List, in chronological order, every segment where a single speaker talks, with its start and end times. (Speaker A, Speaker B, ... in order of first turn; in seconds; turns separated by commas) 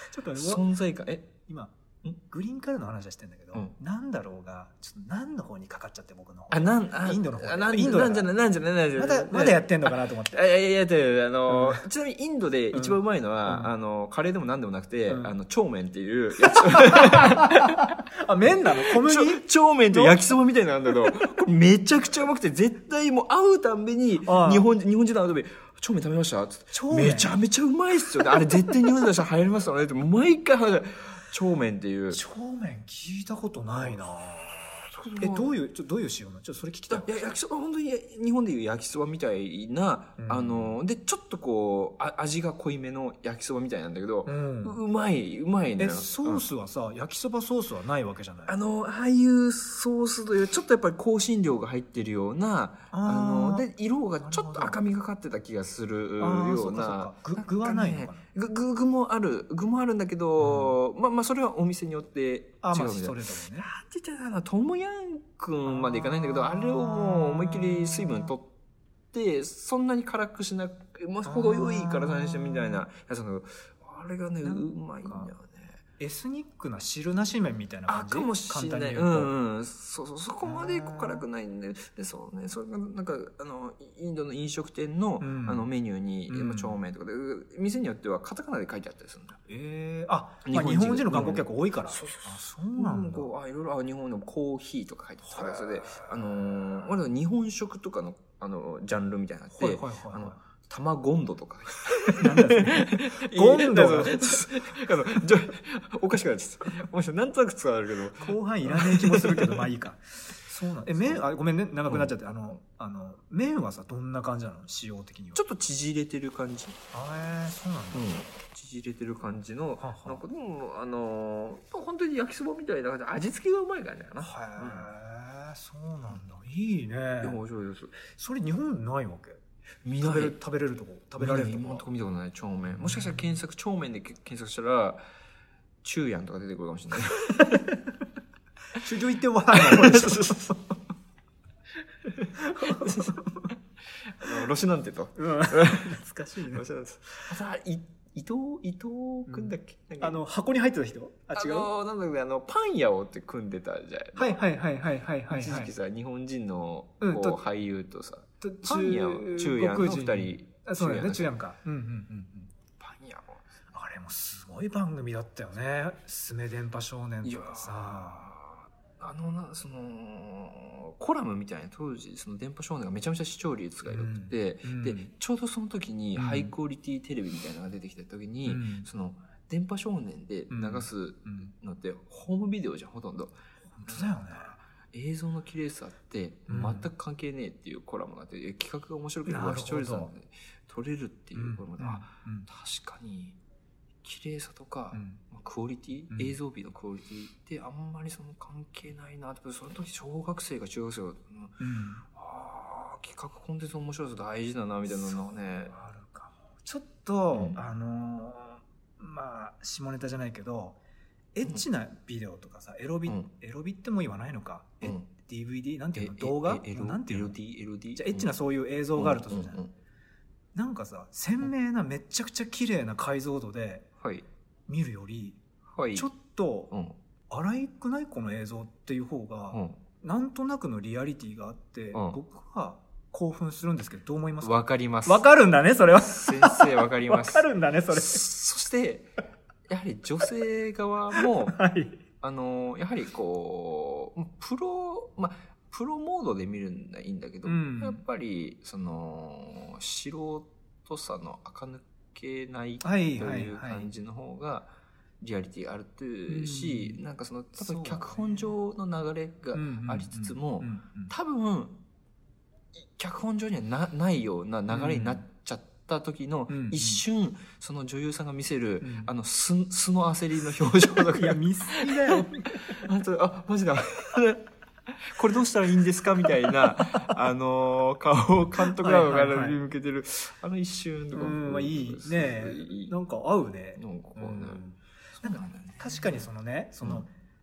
Speaker A: 0.1-0.7, Speaker B: 0.3-1.3, Speaker A: 1.4-8.3, Speaker B: 6.5-18.0, Speaker A: 8.9-10.4, Speaker A: 11.5-11.8, Speaker A: 12.7-13.7, Speaker A: 15.1-15.3, Speaker A: 16.5-20.2, Speaker B: 18.8-32.2, Speaker A: 24.2-24.7, Speaker A: 26.7-27.3, Speaker A: 32.1-37.1, Speaker B: 34.8-35.5, Speaker B: 36.9-46.4, Speaker A: 40.2-40.7, Speaker A: 44.2-44.8, Speaker A: 45.8-48.5, Speaker B: 48.5-68.5, Speaker A: 52.9-53.7, Speaker A: 54.2-54.8, Speaker A: 56.2-58.2, Speaker A: 60.4-60.8, Speaker A: 62.6-63.7, Speaker A: 65.7-68.3, Speaker B: 69.1-75.8, Speaker A: 71.2-72.8, Speaker A: 74.4-75.3, Speaker A: 76.0-79.3, Speaker B: 77.9-89.4, Speaker A: 80.4-81.2, Speaker A: 85.2-85.7, Speaker A: 86.3-86.8, Speaker A: 89.5-93.3, Speaker B: 90.5-109.7, Speaker A: 95.3-95.6, Speaker A: 99.5-100.4, Speaker A: 102.1-104.5, Speaker A: 108.2-115.4, Speaker B: 115.3-116.8, Speaker A: 116.9-118.1, Speaker B: 117.9-124.9, Speaker A: 119.8-120.2, Speaker A: 124.2-127.4, Speaker B: 127.2-128.0, Speaker A: 128.1-129.4, Speaker B: 129.8-130.3, Speaker A: 130.0-131.8, Speaker B: 131.2-135.0, Speaker A: 132.8-133.3, Speaker B: 135.8-137.6, Speaker A: 137.4-137.6, Speaker A: 138.7-140.7, Speaker B: 139.5-140.4, Speaker B: 142.0-145.9, Speaker A: 142.4-143.5, Speaker A: 145.2-147.3, Speaker B: 146.5-150.2, Speaker A: 149.3-151.7, Speaker B: 151.3-154.4, Speaker A: 154.2-155.7, Speaker B: 155.3-161.3, Speaker A: 157.0-157.4, Speaker A: 158.4-162.5, Speaker B: 162.8-163.4, Speaker A: 163.7-168.3, Speaker B: 167.2-193.4, Speaker A: 173.8-175.1, Speaker A: 176.2-176.5, Speaker A: 178.4-178.9, Speaker A: 180.5-181.5, Speaker A: 183.7-184.5, Speaker A: 186.5-186.9, Speaker A: 189.2-190.1, Speaker A: 191.3-192.5, Speaker B: 194.0-205.7, Speaker A: 194.9-195.2, Speaker A: 196.1-196.3, Speaker A: 201.6-202.0, Speaker A: 205.7-210.8, Speaker B: 207.3-207.6, Speaker A: 211.3-217.3, Speaker B: 214.8-215.1, Speaker B: 215.9-218.3, Speaker A: 217.9-219.6, Speaker B: 219.0-219.7, Speaker A: 220.5-223.9, Speaker B: 224.0-224.2, Speaker A: 224.7-225.4, Speaker B: 225.7-226.1, Speaker A: 225.9-226.7, Speaker B: 226.7-226.9, Speaker A: 227.3-238.2, Speaker B: 229.5-229.8, Speaker B: 234.4-235.3, Speaker B: 236.0-239.1, Speaker B: 239.7-241.6, Speaker A: 241.2-242.0, Speaker B: 242.2-261.8, Speaker A: 247.4-248.0, Speaker A: 252.8-253.9, Speaker A: 256.3-257.0, Speaker A: 257.6-258.5, Speaker A: 259.5-261.1, Speaker B: 262.7-282.9, Speaker A: 264.7-265.2, Speaker A: 266.5-267.0, Speaker A: 268.8-269.1, Speaker A: 271.1-272.8, Speaker A: 278.6-279.6, Speaker A: 281.1-287.1, Speaker B: 283.8-284.6, Speaker B: 285.2-286.2